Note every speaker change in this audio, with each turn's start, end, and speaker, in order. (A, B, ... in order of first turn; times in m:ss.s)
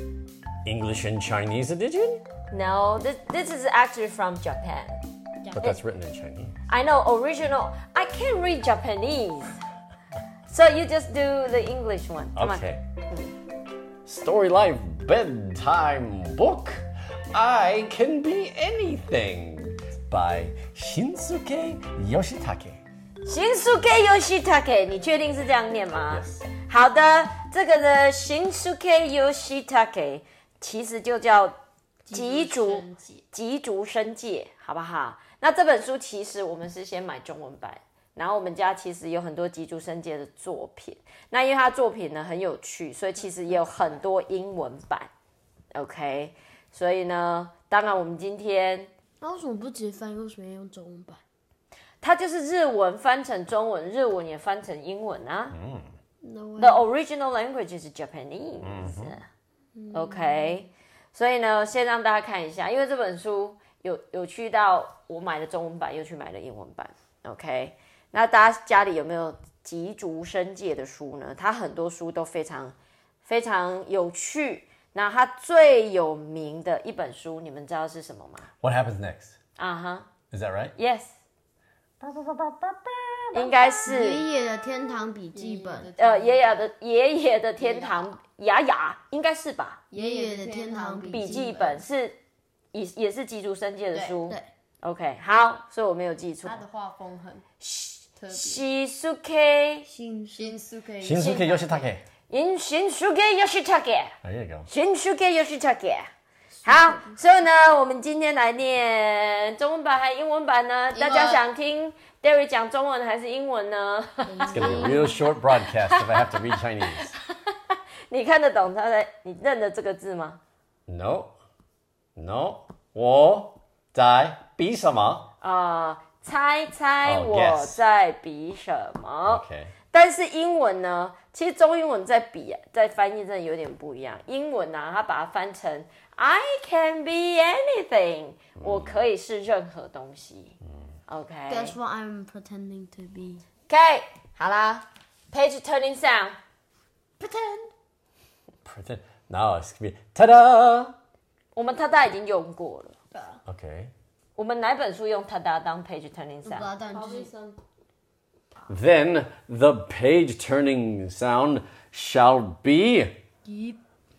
0:00.6-0:02.2 A
0:02.5-0:05.0 B
0:05.5-0:06.5 A
0:06.7-0:09.6 B
0:10.5-0:13.3 B
0:12.3-0:12.8 A
0:14.0-0:22.8 A
0:23.2-0:31.5 B
0:26.1-0:26.4 A
0:32.1-0:33.2 C
0:32.1-0:45.1 B
0:45.7-0:48.9 B
0:49.2-0:51.2 C
0:52.0-0:55.6 B
0:55.5-0:55.9 A
0:56.2-0:56.8 C
0:56.6-0:59.2 B
0:58.6-0:59.2 A
0:59.8-1:00.6 C
0:59.9-1:12.7 B
1:13.2-1:18.5 B
1:18.6-1:19.3 A
1:19.6-1:20.1 B
1:20.3-1:20.7 A
1:20.8-1:21.1 B
1:22.0-1:23.7 A
1:23.3-1:24.2 B
1:23.8-1:25.9 C
1:25.3-1:26.3 D
1:26.0-1:29.9 B
1:29.9-1:31.6 D
1:29.9-1:31.8 C
1:31.1-1:32.2 B
1:32.7-1:36.6 B
1:33.9-1:34.5 C
1:36.4-1:37.4 D
1:37.6-1:39.9 B
1:38.2-1:38.5 D
1:39.9-1:41.6 C
1:40.3-1:41.2 D
1:41.0-1:42.0 A
1:41.2-1:41.7 B
1:42.3-1:44.1 B
1:44.2-1:44.7 A
1:44.7-1:46.1 B
1:46.6-1:54.9 B
1:46.6-1:47.0 C
1:50.9-1:51.4 C
1:54.3-1:55.2 C
1:54.5-1:57.1 A
1:55.8-1:56.4 B
1:58.1-2:00.4 B
2:00.9-2:01.3 A
2:02.2-2:05.3 A
2:05.4-2:20.6 B
2:07.0-2:07.8 A
2:09.2-2:09.7 A
2:18.6-2:19.0 A
2:21.1-2:21.8 B
2:21.5-2:23.4 C
2:23.7-2:26.4 B
2:27.2-2:27.7 C
2:28.6-2:31.0 A
2:31.5-2:32.9 B
2:33.1-2:33.4 C
2:33.4-2:33.9 A
2:34.4-2:36.7 B
2:36.4-2:37.3 C
2:36.9-2:37.6 D
2:38.7-2:43.1 A
2:43.4-2:43.8 C